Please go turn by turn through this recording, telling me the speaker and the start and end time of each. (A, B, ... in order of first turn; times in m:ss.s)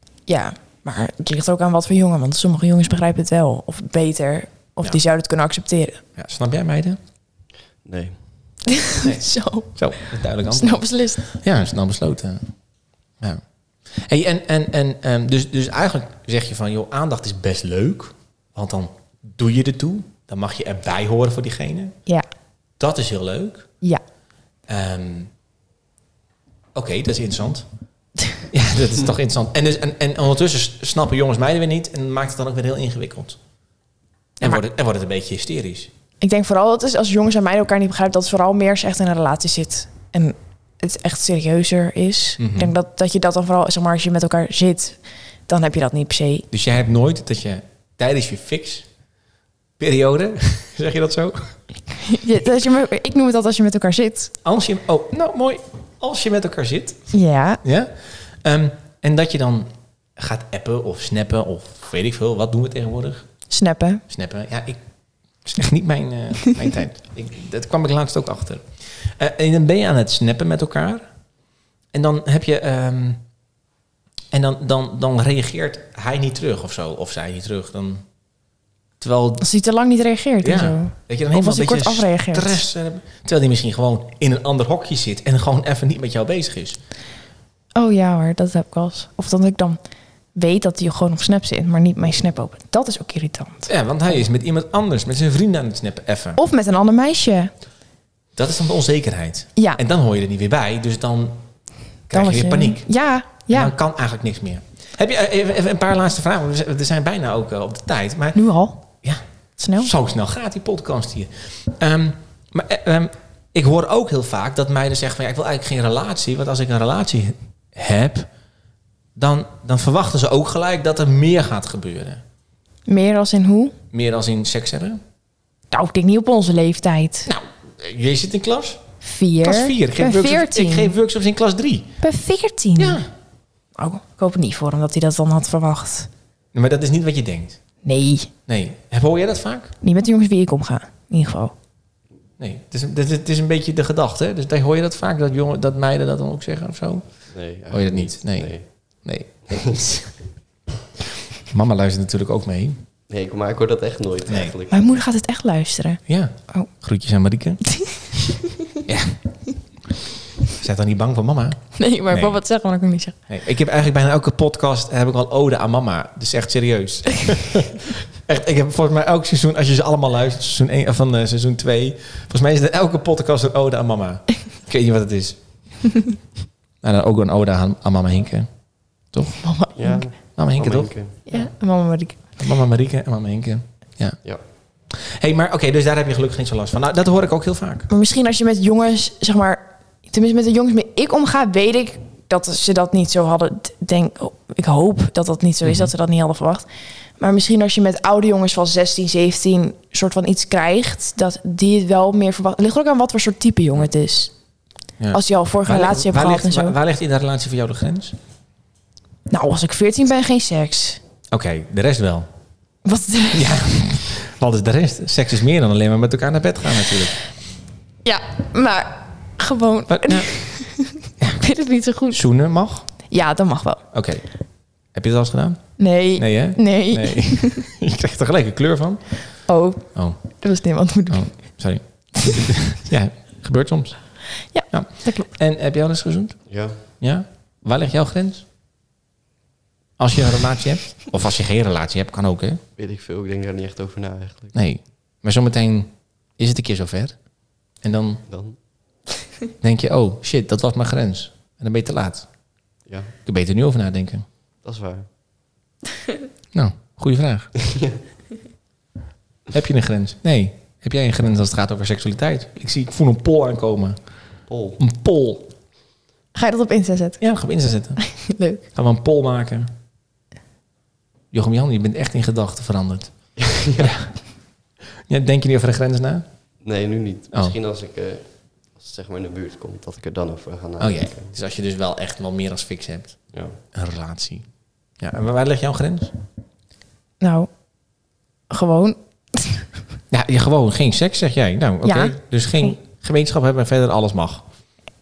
0:00.3-0:06.0 A
0:06.2-0:07.0 B
0:07.8-0:08.6 C
0:08.7-0:09.8 A
0:09.0-0:12.5 B
0:10.5-0:11.3 A
0:13.2-0:22.0 B
0:22.8-0:23.7 B
0:24.7-0:25.3 B
0:26.7-0:27.6 B
0:28.5-0:33.4 B
0:34.4-0:35.9 B
0:36.2-0:46.4 A
0:42.4-0:42.7 B
0:46.5-0:48.9 B
0:49.8-0:51.6 B
0:52.0-0:54.3 A
0:54.4-0:57.1 B
0:57.1-0:57.6 A
0:57.6-1:03.2 B
1:03.5-1:04.0 A
1:04.1-1:04.8 B
1:05.4-1:11.1 B
1:11.9-1:13.2 B
1:14.3-1:18.0 B
1:19.0-1:19.4 B
1:19.4-1:22.6 A
1:20.4-1:26.8 B
1:27.7-1:29.8 A
1:30.4-1:33.7 A
1:33.7-1:36.4 B
1:36.4-1:37.5 A
1:38.4-1:41.4 B
1:39.6-1:39.8 A
1:42.1-1:42.9 B
1:42.1-1:43.7 A
1:43.5-1:48.4 B
1:48.4-1:48.8 A
1:49.6-1:49.9 A
1:49.8-1:58.3 B
1:59.2-2:02.2 B
2:02.9-2:03.7 A
2:03.9-2:05.0 B
2:05.7-2:07.3 A
2:07.2-2:08.8 B
2:09.0-2:10.9 A
2:09.4-2:11.9 B
2:12.0-2:13.0 A
2:12.8-2:13.1 B
2:13.8-2:16.1 A
2:16.5-2:17.6 B
2:17.8-2:18.3 A
2:18.5-2:19.7 B
2:19.8-2:21.5 A
2:22.4-2:29.9 B
2:27.3-2:29.8 C
2:31.5-2:32.8 B
2:33.1-2:35.0 C
2:34.3-2:34.5 B
2:34.7-2:36.7 A
2:36.1-2:37.8 B
2:38.9-2:39.2 B
2:40.5-2:42.4 B
2:41.8-2:43.2 A
2:43.3-2:55.8 B
2:56.8-2:59.4 B
2:59.3-3:00.1 A
2:59.8-3:01.2 C
3:00.4-3:01.5 B
3:01.3-3:02.2 A
3:02.4-3:04.2 B
3:04.9-3:07.9 B
3:07.9-3:16.6 A
3:15.6-3:15.9 B
3:17.2-3:24.3 A
3:25.0-3:28.2 B
3:25.1-3:26.8 A
3:29.3-3:31.0 A
3:31.3-3:32.3 B
3:32.8-3:33.5 A
3:33.3-3:37.2 B
3:38.0-3:42.2 A
3:39.9-3:40.3 B
3:42.1-3:42.9 B
3:43.1-3:43.8 A
3:43.9-3:44.2 B
3:44.9-3:49.1 B
3:45.8-3:47.6 A
3:49.5-3:51.6 A
3:51.1-3:58.4 B
3:54.5-3:55.3 A
3:56.5-3:56.8 C
4:00.0-4:02.6 B
4:02.8-4:04.5 C
4:04.5-4:07.2 B
4:07.8-4:08.2 B
4:08.3-4:08.6 C
4:09.6-4:12.3 B
4:12.9-4:13.1 C
4:13.2-4:14.2 B
4:14.6-4:15.1 C
4:16.5-4:17.5 B
4:17.7-4:17.9 C
4:19.5-4:24.0 B
4:24.5-4:24.8 C
4:24.8-4:25.5 B
4:26.3-4:27.2 A
4:27.2-4:29.7 B
4:28.0-4:28.6 A
4:31.3-4:34.1 B
4:33.4-4:33.9 C
4:35.1-4:36.2 B
4:36.6-4:41.4 C
4:40.8-4:44.4 B
4:43.3-4:43.6 C
4:45.0-4:46.1 B
4:47.2-4:47.5 A
4:48.5-4:49.6 A
4:50.1-4:54.4 B
4:51.8-4:52.8 A